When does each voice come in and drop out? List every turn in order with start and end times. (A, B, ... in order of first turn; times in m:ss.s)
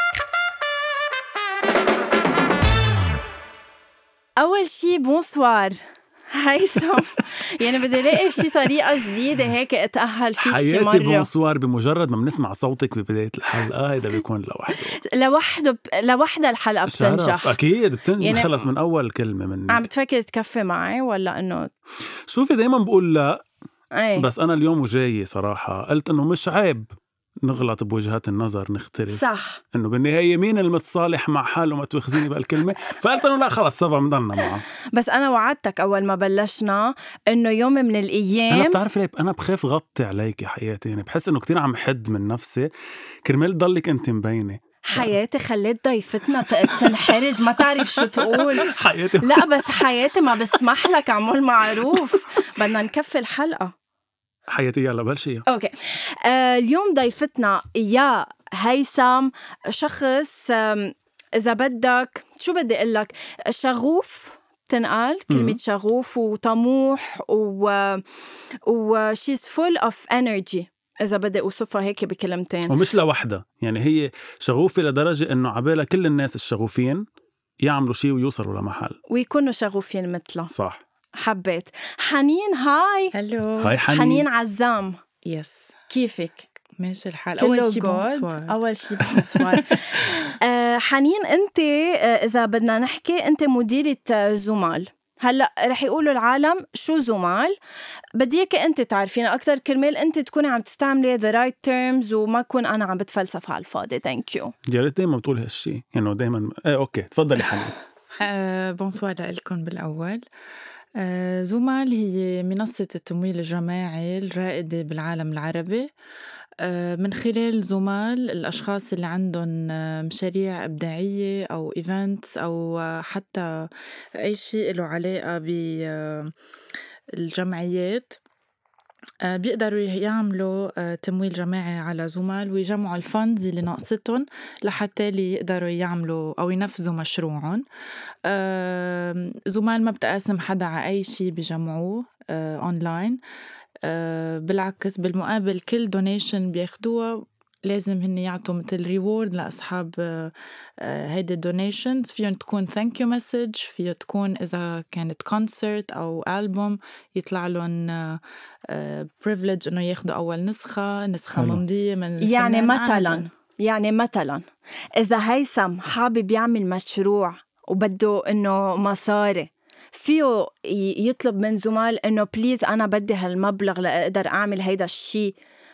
0:04.4-0:05.8 A
0:06.3-0:11.3 A
0:10.4-0:15.0 B
0:15.1-0:17.6 A
0:16.9-0:19.8 B
0:18.2-0:18.5 A
0:19.7-0:21.7 A
0:22.3-0:23.4 B
0:23.9-0:24.2 A
0:24.2-0:26.9 B
0:27.4-0:34.6 B
0:29.1-0:29.6 A
0:34.9-0:38.8 A
0:38.5-0:42.7 B
0:43.2-0:45.1 B
0:44.9-0:48.7 A
0:46.6-0:49.8 B
0:49.2-0:53.7 A
0:54.5-0:55.4 B
0:55.5-1:08.0 A
1:05.3-1:05.6 B
1:08.7-1:12.7 A
1:12.7-1:17.0 B
1:17.6-1:19.0 B
1:19.1-1:20.5 A
1:20.5-1:20.8 B
1:21.2-1:23.1 A
1:23.1-1:23.8 C
1:23.6-1:24.2 B
1:23.9-1:25.0 A
1:25.2-1:25.7 C
1:25.9-1:26.6 A
1:26.8-1:30.1 C
1:27.4-1:37.5 A
1:38.1-1:44.5 A
1:44.7-1:47.7 B
1:48.2-1:50.2 C
1:51.0-1:55.9 C
1:56.6-2:03.7 C
2:04.2-2:06.3 C
2:07.1-2:08.2 C
2:09.2-2:17.6 C
2:18.2-2:23.2 C
2:23.8-2:43.3 C
2:41.3-2:41.6 B
2:42.2-2:55.3 A